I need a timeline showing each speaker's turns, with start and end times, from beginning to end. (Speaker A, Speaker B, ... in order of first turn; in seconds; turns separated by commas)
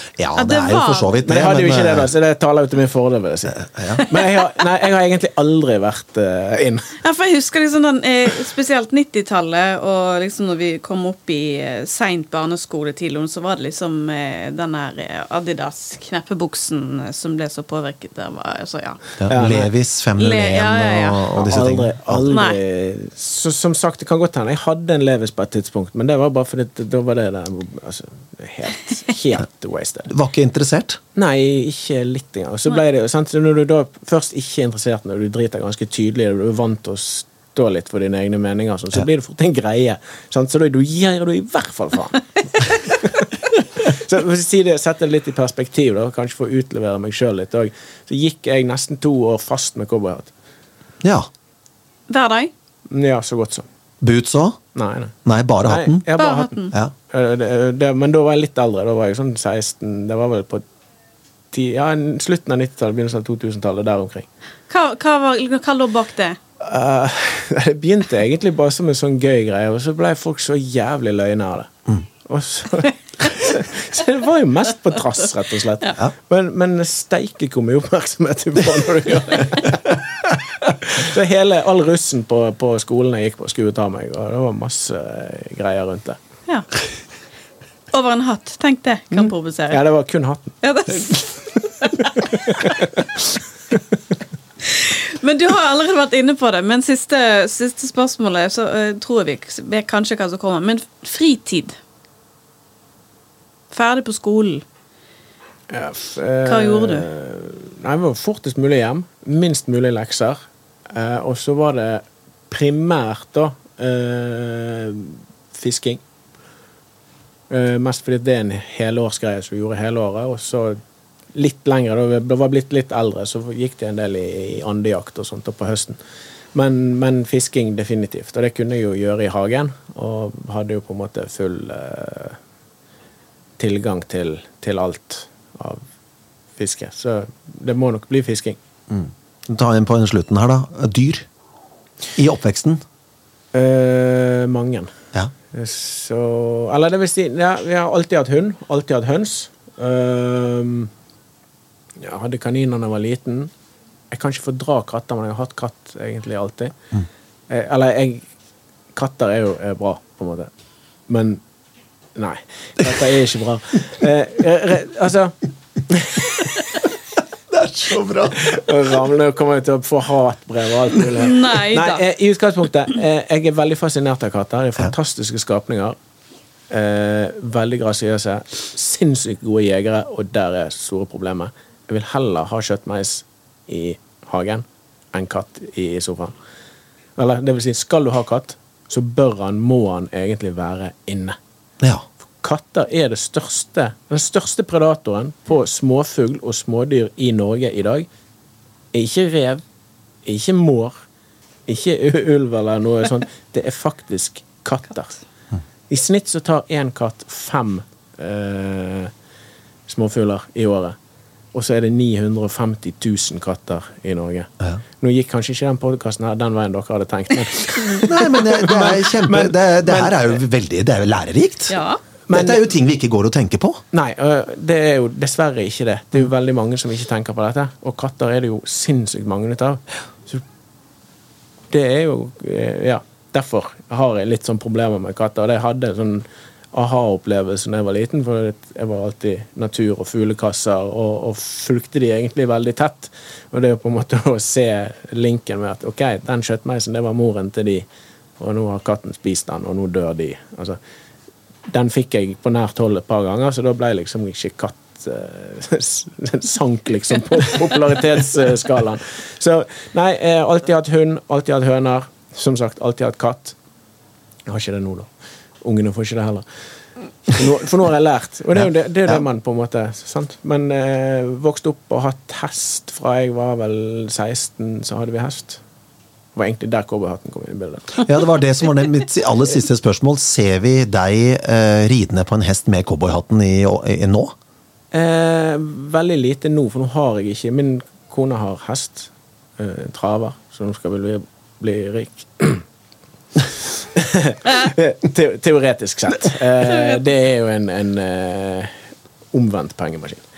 Speaker A: 0.1-2.1, Speaker B: 0.3-1.4, Speaker C: 1.2-7.0, Speaker A: 3.5-4.0, Speaker B: 4.0-4.5, Speaker B: 7.0-19.2, Speaker A: 19.2-22.3, Speaker C: 19.3-19.7, Speaker B: 20.2-21.3, Speaker C: 21.4-30.1, Speaker B: 22.3-22.6, Speaker A: 30.1-31.0, Speaker C: 31.1-50.3, Speaker A: 51.0-51.3, Speaker B: 52.1-52.5, Speaker C: 52.9-53.6, Speaker A: 54.0-54.6, Speaker C: 54.8-60.6, Speaker A: 55.2-56.0, Speaker B: 56.2-56.7, Speaker C: 61.5-64.3, Speaker B: 64.7-66.4, Speaker C: 66.6-71.7, Speaker C: 72.2-86.2, Speaker B: 87.9-89.8, Speaker C: 89.1-91.0, Speaker B: 90.6-92.8, Speaker C: 92.0-93.1, Speaker B: 94.6-101.8, Speaker B: 103.7-104.6, Speaker C: 105.7-116.0, Speaker B: 106.5-107.1, Speaker C: 117.5-120.8, Speaker C: 121.3-126.0, Speaker C: 126.5-132.4, Speaker C: 133.6-135.8, Speaker C: 136.6-138.6, Speaker A: 138.9-141.3, Speaker A: 142.1-142.8, Speaker C: 143.5-144.9, Speaker C: 145.5-150.9, Speaker C: 152.0-153.5, Speaker C: 154.1-156.8, Speaker C: 157.5-158.3, Speaker C: 158.9-160.5, Speaker C: 161.1-161.4, Speaker C: 162.1-166.8, Speaker A: 167.5-168.6, Speaker C: 168.3-175.9, Speaker B: 171.2-172.0, Speaker C: 176.7-186.3, Speaker C: 187.2-191.4, Speaker A: 191.8-192.1, Speaker C: 192.4-198.1, Speaker C: 198.9-199.6, Speaker C: 200.2-200.9, Speaker C: 201.7-205.2, Speaker C: 205.9-209.1, Speaker C: 209.9-211.0, Speaker C: 211.5-220.4, Speaker A: 218.0-221.8, Speaker B: 221.7-222.0, Speaker C: 222.3-222.6, Speaker A: 222.3-223.8, Speaker C: 223.9-230.4, Speaker C: 231.7-247.9, Speaker C: 248.4-250.8, Speaker C: 251.7-263.6, Speaker C: 264.5-265.1, Speaker C: 265.6-266.4, Speaker C: 267.2-275.6, Speaker C: 276.4-278.0, Speaker A: 278.0-284.4, Speaker C: 284.9-292.6, Speaker C: 293.4-298.8, Speaker B: 296.7-297.0, Speaker C: 299.3-300.3